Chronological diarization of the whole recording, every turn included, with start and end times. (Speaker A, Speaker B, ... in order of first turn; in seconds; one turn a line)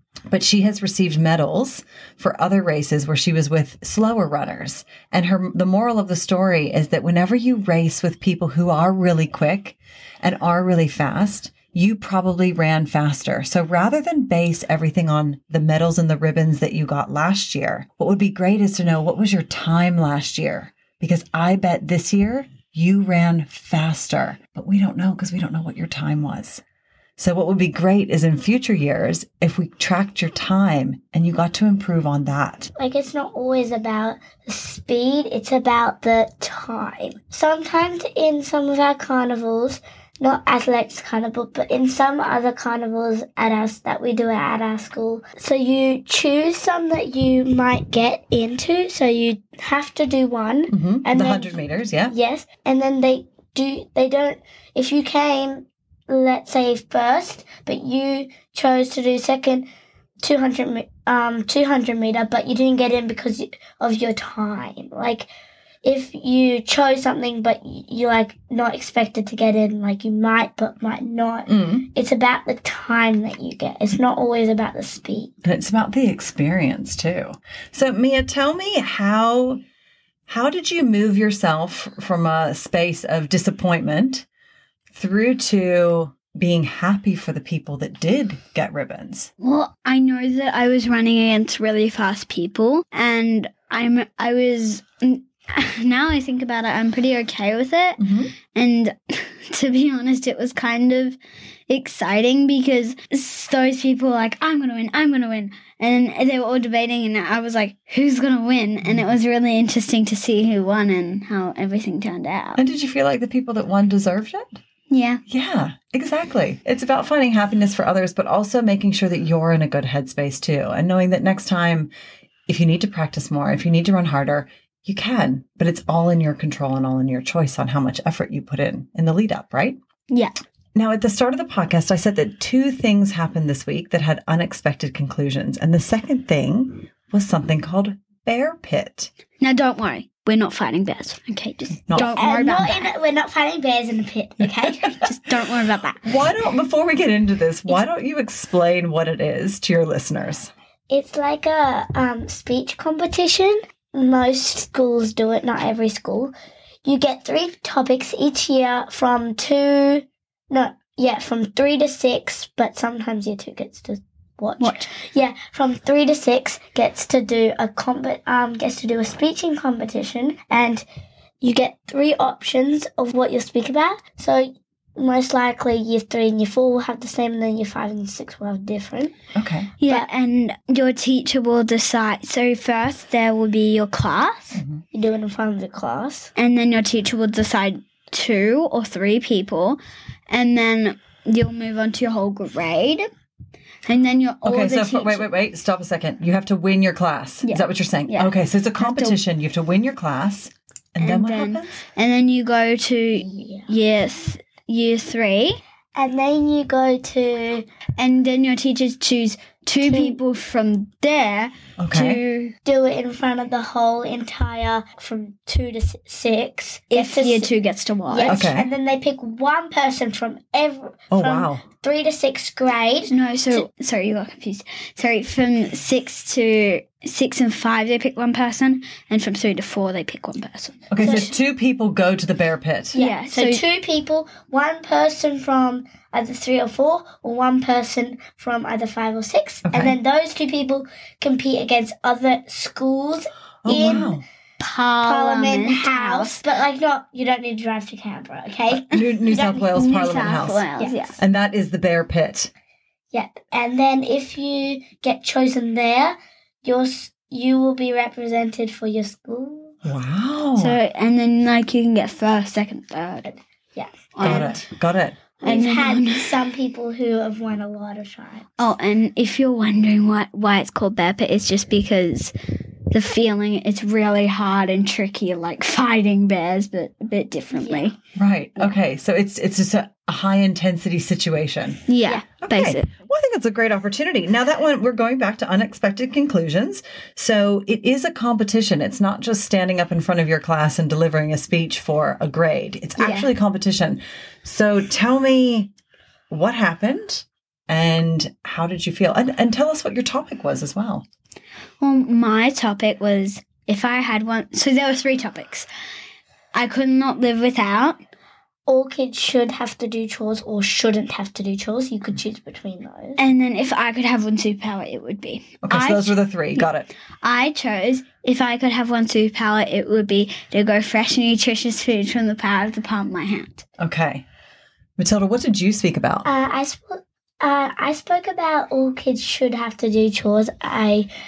Speaker A: 0.3-26.6
Speaker A: 27.2-32.7
Speaker B: 32.8-51.6
Speaker A: 50.7-52.1
Speaker B: 52.1-59.7
Speaker B: 60.2-65.3
Speaker B: 65.8-75.3
Speaker A: 71.5-71.9
Speaker A: 75.4-79.6
Speaker A: 80.3-84.3
Speaker A: 84.9-89.3
Speaker C: 89.4-98.0
Speaker A: 98.0-98.4
Speaker C: 98.5-101.2
Speaker C: 101.7-112.6
Speaker A: 108.8-109.1
Speaker A: 112.6-114.6
Speaker C: 114.9-115.2
Speaker A: 115.3-121.9
Speaker A: 122.5-129.8
Speaker C: 130.1-130.3
Speaker A: 130.8-139.1
Speaker C: 139.4-142.9
Speaker B: 141.9-145.1
Speaker A: 144.4-144.9
Speaker C: 145.0-146.2
Speaker A: 146.1-150.5
Speaker B: 150.9-156.3
Speaker B: 156.8-170.8
Speaker C: 164.6-164.9
Speaker B: 171.4-179.1
Speaker A: 179.3-179.7
Speaker C: 179.8-184.6
Speaker A: 184.6-184.8
Speaker B: 184.9-186.3
Speaker C: 186.4-193.1
Speaker C: 193.9-195.3
Speaker A: 194.4-201.8
Speaker C: 197.4-199.2
Speaker C: 201.0-205.6
Speaker B: 203.2-203.7
Speaker B: 205.9-207.7
Speaker C: 208.0-212.5
Speaker B: 209.8-210.2
Speaker A: 211.8-212.2
Speaker B: 212.7-217.5
Speaker C: 216.9-218.5
Speaker B: 218.1-223.7
Speaker A: 218.2-218.7
Speaker A: 221.1-221.6
Speaker C: 223.1-231.3
Speaker A: 230.9-233.0
Speaker B: 231.0-231.3
Speaker C: 232.9-233.6
Speaker B: 233.0-244.2
Speaker A: 239.7-240.0
Speaker A: 243.6-244.2
Speaker C: 244.6-246.4
Speaker B: 245.0-249.7
Speaker A: 248.7-252.5
Speaker C: 249.7-251.2
Speaker B: 253.1-259.8
Speaker A: 259.9-260.8
Speaker C: 260.6-263.4
Speaker B: 263.8-264.6
Speaker C: 264.1-264.6
Speaker A: 264.2-265.2
Speaker B: 265.4-268.6
Speaker C: 265.4-266.4
Speaker C: 268.6-272.3
Speaker C: 272.9-278.0
Speaker B: 277.5-277.9
Speaker A: 278.2-281.8
Speaker C: 281.9-282.9
Speaker A: 282.4-295.7
Speaker C: 293.0-293.3
Speaker A: 296.3-301.1
Speaker C: 301.8-305.7
Speaker C: 306.5-308.0
Speaker B: 308.7-313.2
Speaker C: 313.2-316.7
Speaker A: 315.6-316.9
Speaker C: 317.2-323.6
Speaker A: 323.8-324.2
Speaker A: 325.0-326.3
Speaker B: 326.2-331.1